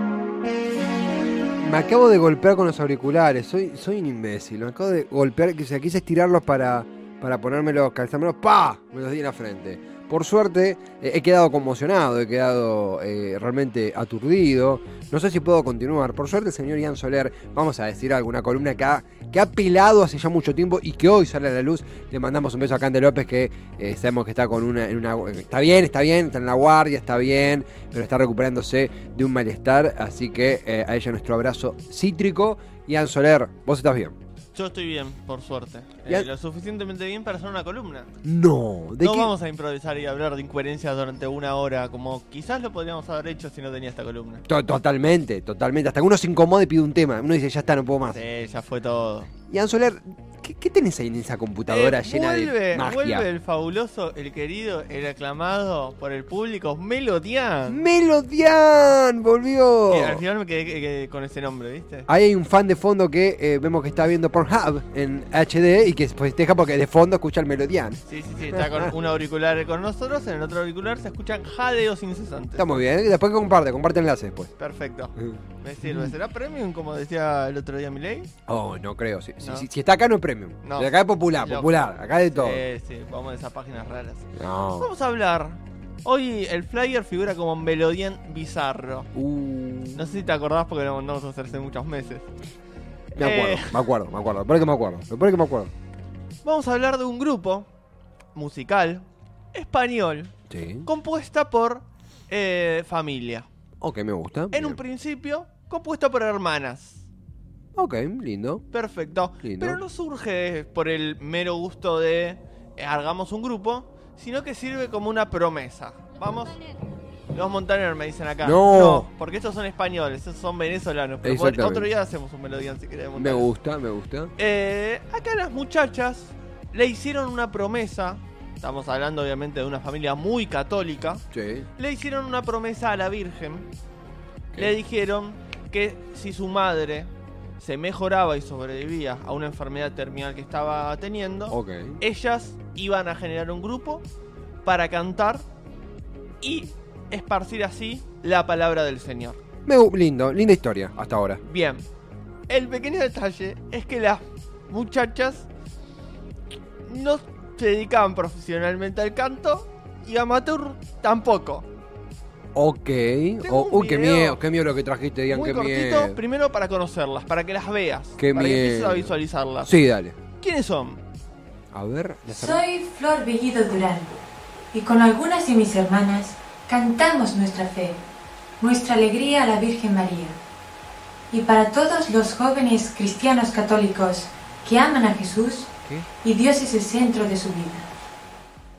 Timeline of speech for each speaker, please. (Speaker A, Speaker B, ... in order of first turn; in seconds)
Speaker A: 1.6-34.1, 38.2-39.3, 44.5-48.2, 49.5-53.2, 57.7-60.2, 62.1-68.9, 72.6-74.5, 75.8-76.1, 78.5-82.6, 84.3-84.9, 89.1-90.0, 93.2-95.7, 100.5-100.9, 103.8-104.8, 107.8-108.6, 109.4-109.8, 118.4-119.1, 121.2-121.9, 123.2-124.3, 131.3-131.7, 141.5-142.0, 149.7-151.4, 162.5-166.2, 168.2-169.1, 169.6-170.1, 171.7-172.6
Speaker B: 34.5-38.1, 39.0-44.4, 48.1-49.3, 51.7-57.8, 59.9-62.1, 68.1-72.7, 74.6-78.3, 79.4-79.7, 80.6-89.1, 89.9-92.3, 93.2-93.8, 96.4-97.7, 98.3-100.3, 100.8-103.5, 104.5-107.0, 108.7-116.6, 117.3-123.5, 124.4-131.2, 131.8-133.7, 134.6-144.0, 144.6-145.4, 146.4-149.4, 151.4-151.8, 152.5-155.5, 156.8-161.7, 163.4-164.4, 165.3-169.7, 170.4-171.0
Speaker C: 172.3-174.2, 174.7-178.0, 178.6-180.4, 181.3-185.7, 186.2-187.9